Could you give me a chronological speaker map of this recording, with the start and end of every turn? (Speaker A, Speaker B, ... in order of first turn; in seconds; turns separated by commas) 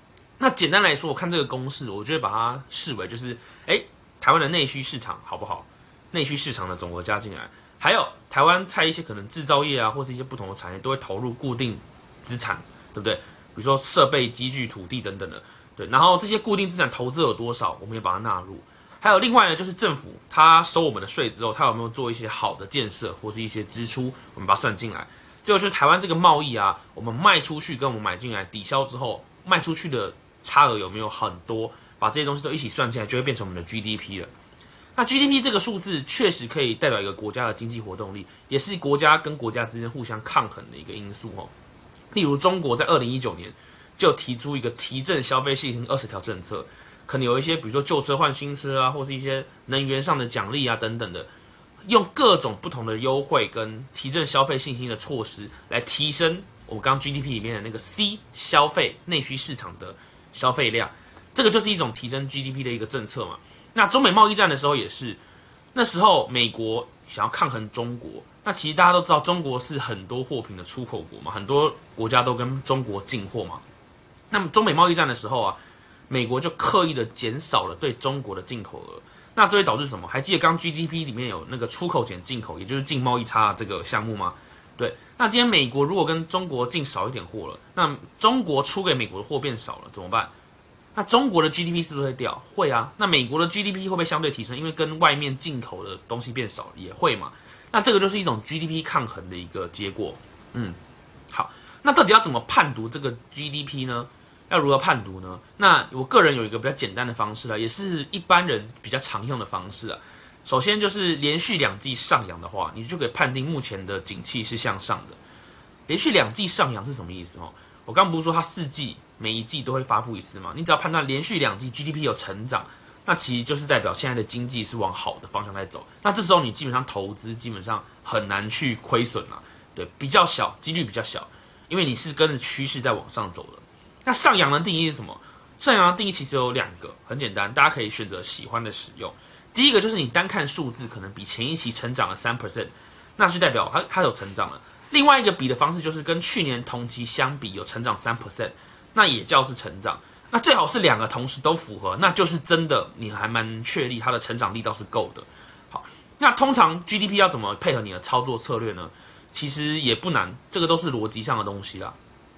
Speaker A: 0.4-34.3, Speaker A: 35.0-41.5, Speaker A: 42.1-51.3, Speaker A: 51.8-65.2, Speaker A: 65.7-73.6, Speaker A: 74.3-90.3, Speaker A: 90.9-100.8, Speaker A: 101.3-115.2, Speaker A: 115.9-161.9